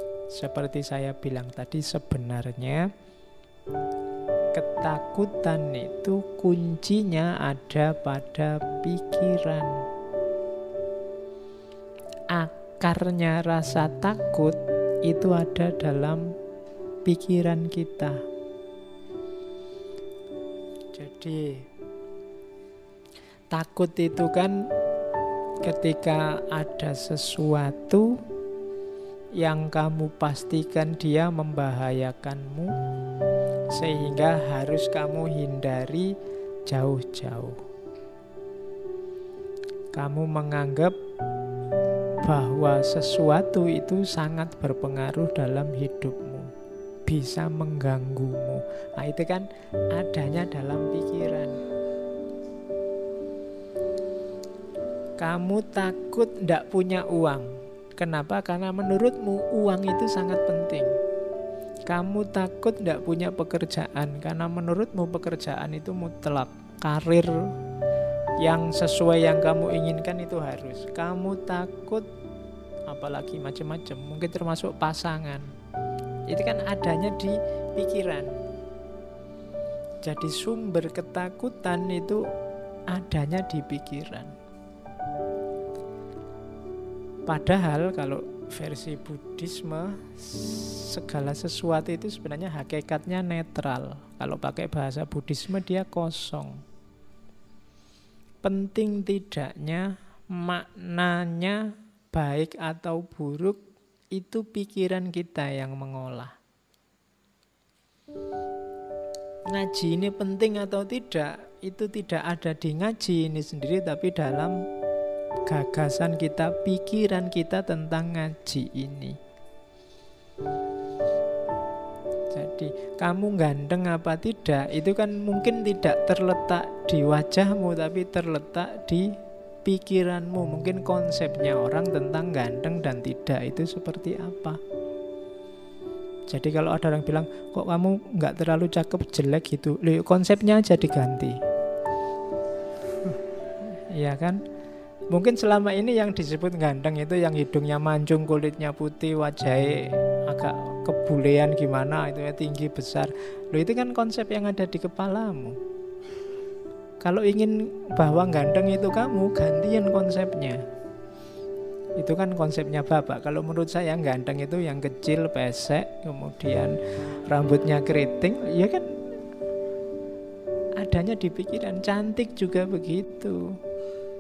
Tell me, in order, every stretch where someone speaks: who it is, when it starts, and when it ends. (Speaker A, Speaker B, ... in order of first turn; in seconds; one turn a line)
Speaker A: 0.3-2.9
Speaker A: 4.5-9.8
Speaker A: 12.3-16.3
Speaker A: 17.1-18.2
Speaker A: 20.9-21.6
Speaker A: 23.5-24.7
Speaker A: 25.6-28.2
Speaker A: 29.4-32.8
Speaker A: 33.7-36.1
Speaker A: 36.7-37.6
Speaker A: 39.9-41.0
Speaker A: 42.2-46.5
Speaker A: 47.1-51.6
Speaker A: 55.2-61.0
Speaker A: 61.9-67.5
Speaker A: 68.4-72.1
Speaker A: 72.9-75.5
Speaker A: 76.3-78.3
Speaker A: 80.0-82.2
Speaker A: 82.9-84.3
Speaker A: 87.3-96.6
Speaker A: 98.4-106.3
Speaker A: 109.5-114.6
Speaker A: 115.5-119.2
Speaker A: 122.3-134.6
Speaker A: 136.3-141.4
Speaker A: 143.6-144.4
Speaker A: 145.1-155.6
Speaker A: 157.0-160.6
Speaker A: 162.0-169.0
Speaker A: 170.8-173.6